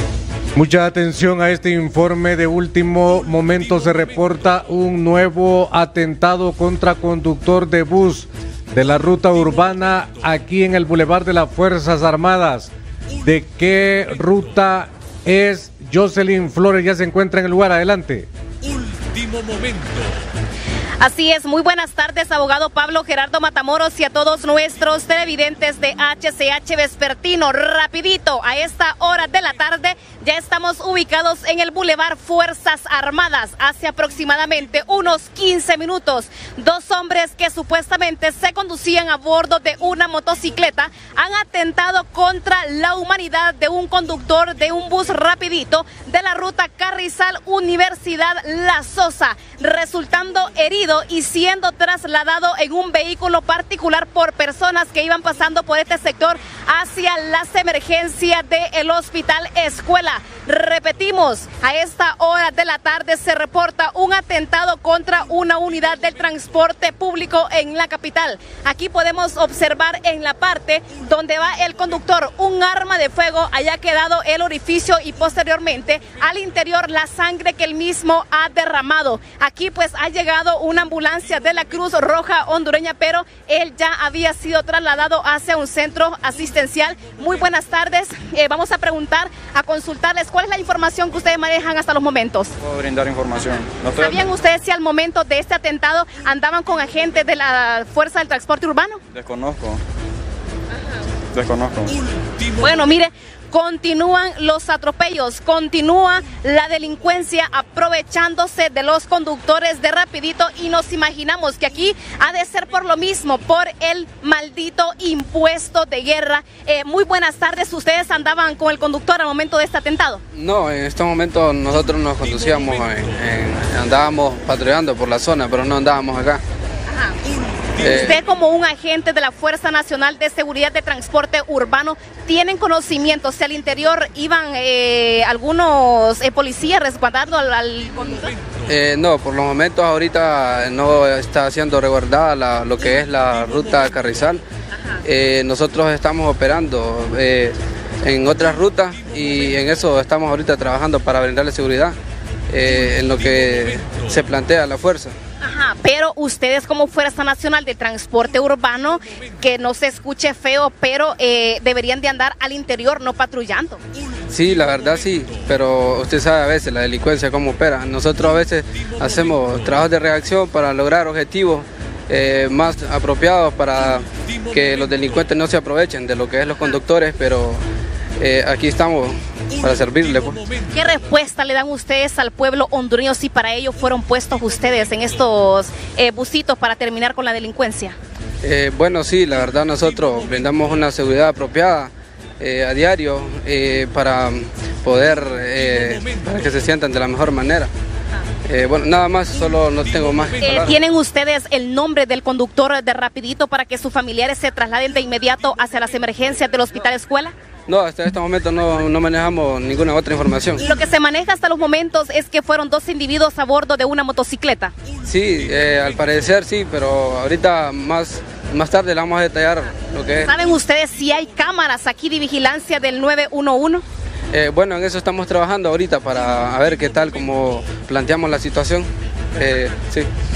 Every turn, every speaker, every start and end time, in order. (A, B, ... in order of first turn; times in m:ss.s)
0:00.6-0:12.7 A
0:13.2-0:18.3 A
0:21.0-1:32.5 B
1:32.6-1:34.2 C
1:34.0-1:39.0 B
1:39.1-1:39.8 C
1:41.3-1:42.0 C
1:42.6-2:00.2 B
2:00.4-2:06.4 D
2:07.8-2:08.2 D
2:07.8-2:18.3 B
2:18.7-2:24.4 D
2:25.0-2:32.0 D
2:32.5-2:35.1 D
2:35.4-2:43.8 B
2:44.3-2:57.6 D
2:58.2-3:00.4 D
3:00.7-3:08.0 B
3:08.4-3:17.7 D
3:18.5-3:20.7 D
3:20.4-3:27.3 B
3:27.7-3:30.6 D
3:30.6-3:34.7 B
3:35.0-3:40.3 D
3:40.2-3:43.8 B
3:44.3-3:50.1 D